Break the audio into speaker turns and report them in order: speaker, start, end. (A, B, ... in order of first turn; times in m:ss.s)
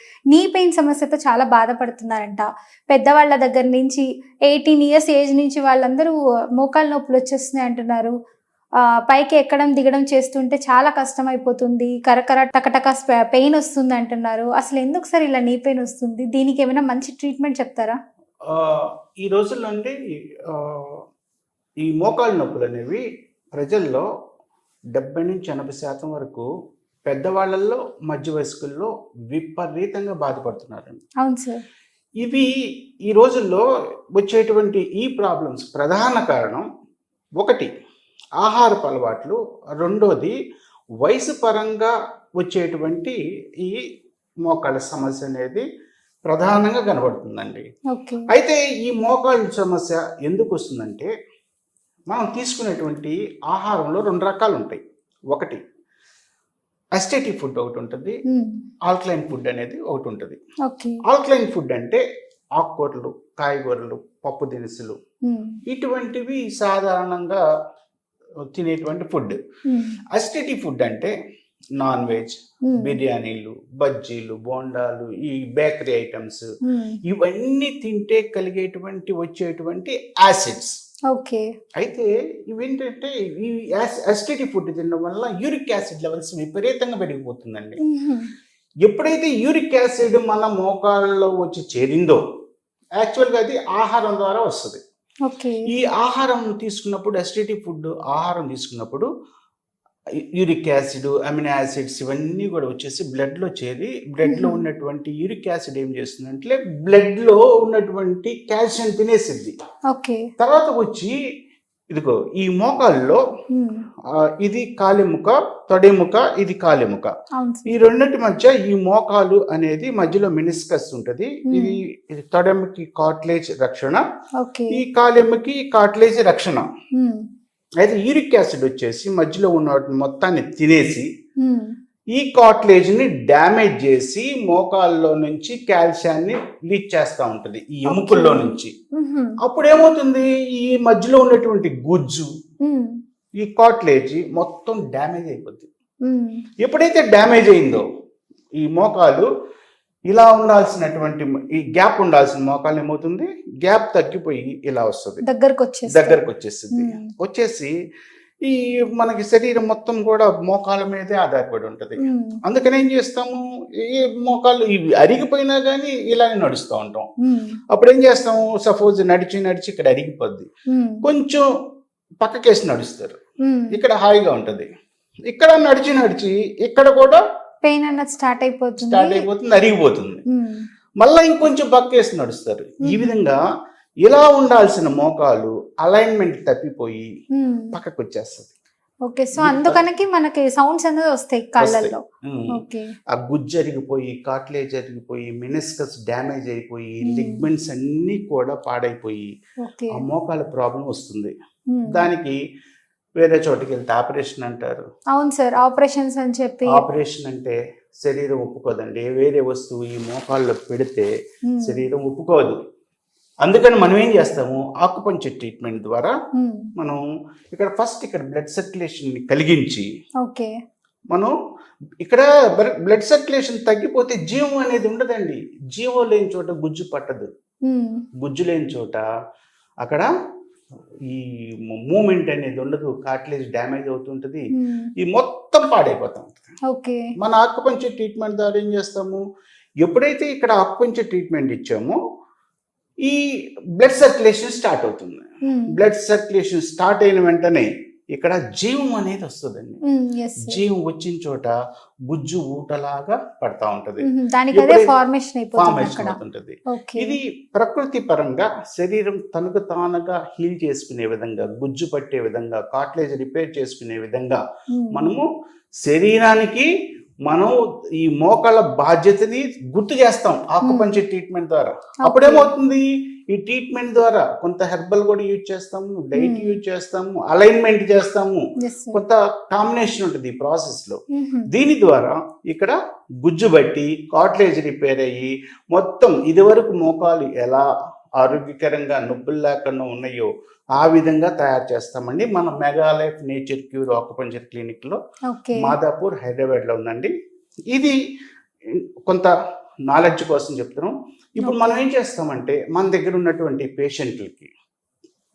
0:00.3-0:08.1 A
0:09.1-0:18.0 A
0:18.5-0:21.0 B
0:21.8-0:24.1 B
0:25.0-0:26.5 B
0:27.1-0:31.0 B
0:31.2-0:31.6 A
0:32.2-0:32.5 B
0:33.1-0:33.6 B
0:34.2-0:36.7 B
0:37.4-0:37.7 B
0:38.4-0:40.4 B
0:41.0-0:43.8 B
0:44.5-0:45.6 B
0:46.3-0:47.7 B
0:47.9-0:48.3 A
0:48.3-0:51.1 B
0:52.1-0:54.8 B
0:55.3-0:55.6 B
0:57.0-0:58.2 B
0:58.3-0:58.6 A
0:58.9-1:00.4 B
1:00.7-1:01.0 A
1:01.1-1:02.0 B
1:02.6-1:05.0 B
1:05.3-1:05.6 A
1:05.7-1:07.4 B
1:08.5-1:09.4 B
1:09.7-1:10.0 A
1:10.1-1:11.1 B
1:11.8-1:16.5 B
1:12.7-1:13.0 A
1:16.6-1:17.0 A
1:17.0-1:20.8 B
1:21.1-1:21.5 A
1:21.8-1:27.8 B
1:27.9-1:28.3 A
1:28.8-1:32.2 B
1:33.0-1:34.8 B
1:35.3-1:35.7 A
1:35.7-1:39.1 B
1:40.4-1:49.6 B
1:44.2-1:44.6 A
1:49.9-1:50.3 A
1:50.4-1:51.2 B
1:51.9-1:53.2 B
1:53.5-1:53.8 A
1:54.2-1:57.1 B
1:57.4-1:57.8 A
1:57.7-2:04.0 B
2:01.5-2:01.8 A
2:04.4-2:04.8 A
2:04.7-2:06.7 B
2:07.0-2:07.2 A
2:07.8-2:11.1 B
2:11.4-2:11.7 A
2:12.2-2:18.7 B
2:17.9-2:19.4 A
2:19.4-2:22.3 B
2:22.6-2:23.0 A
2:23.4-2:25.7 B
2:26.1-2:26.4 A
2:26.6-2:27.8 B
2:28.6-2:29.3 B
2:30.1-2:35.2 B
2:35.2-2:36.2 A
2:35.9-2:37.7 B
2:36.7-2:37.1 A
2:38.4-2:47.1 B
2:42.0-2:42.4 A
2:47.2-2:47.6 A
2:47.7-2:50.5 B
2:50.7-2:51.0 A
2:51.0-2:51.5 B
2:52.2-2:53.2 B
2:53.4-2:53.8 A
2:53.7-2:54.7 B
2:55.3-2:57.2 B
2:57.6-2:59.2 A
2:58.8-3:00.2 B
3:00.3-3:00.6 A
3:01.0-3:03.4 B
3:02.9-3:03.2 A
3:04.0-3:07.1 B
3:07.3-3:07.7 A
3:07.7-3:08.5 B
3:09.1-3:12.0 A
3:09.4-3:09.8 B
3:11.6-3:12.6 B
3:12.6-3:12.9 A
3:13.1-3:19.3 B
3:17.1-3:17.5 A
3:19.6-3:20.0 A
3:19.9-3:21.3 B
3:21.7-3:22.0 A
3:21.9-3:22.4 B
3:23.2-3:24.8 B
3:25.1-3:26.8 A
3:26.7-3:31.1 B
3:31.5-3:31.8 A
3:31.6-3:32.6 B
3:33.4-3:36.1 B
3:36.4-3:36.7 A
3:37.5-3:39.9 B
3:40.2-3:40.5 A
3:42.0-3:47.3 B
3:47.7-3:48.0 A
3:48.2-3:49.0 B
3:49.8-3:50.1 B
3:51.1-3:54.5 B
3:54.5-3:54.9 A
3:55.0-3:56.4 B
3:56.7-3:57.1 A
3:57.2-3:59.2 B
3:59.8-4:02.0 B
4:03.8-4:09.8 B
4:05.4-4:05.7 A
4:09.9-4:10.6 A
4:10.4-4:11.5 B
4:12.1-4:14.9 B
4:14.0-4:17.2 A
4:15.6-4:24.4 B
4:24.7-4:25.1 A
4:24.9-4:25.2 B
4:25.8-4:26.7 B
4:27.3-4:38.4 B
4:30.6-4:31.0 A
4:32.0-4:32.5 A
4:36.2-4:36.6 A
4:38.6-4:39.0 A
4:38.9-4:41.0 B
4:41.1-4:41.5 A
4:41.5-4:47.7 B
4:48.2-4:55.0 B
4:55.3-4:55.8 A
4:55.6-4:57.1 B
4:59.9-5:04.5 B
5:01.4-5:01.8 A